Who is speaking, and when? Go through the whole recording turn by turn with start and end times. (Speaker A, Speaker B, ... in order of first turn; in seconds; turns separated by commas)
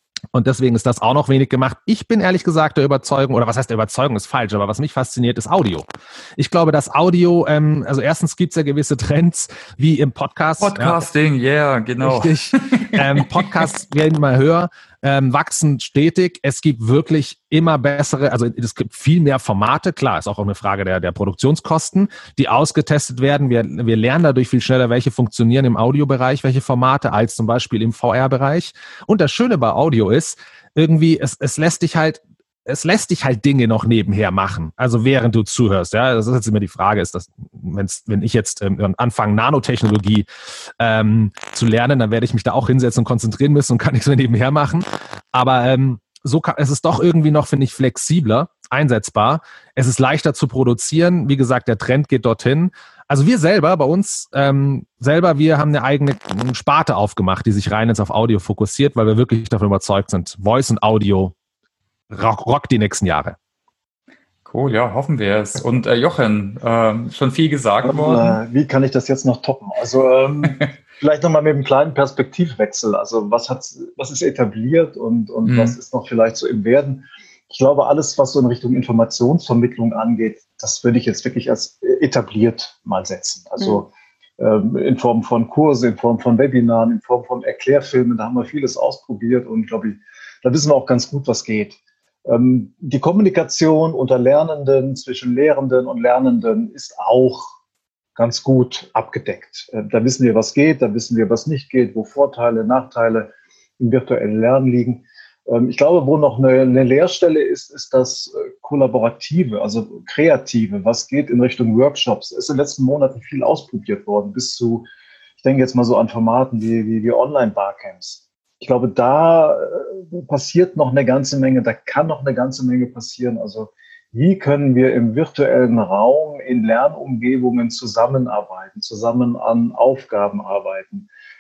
Speaker A: 0.3-11.0, Speaker B: 10.6-13.6, Speaker A: 12.0-40.3, Speaker A: 40.8-61.3, Speaker A: 62.1-63.4, Speaker B: 64.5-68.4, Speaker C: 67.8-97.5, Speaker B: 75.5-75.8, Speaker C: 98.2-114.9, Speaker C: 115.4-131.1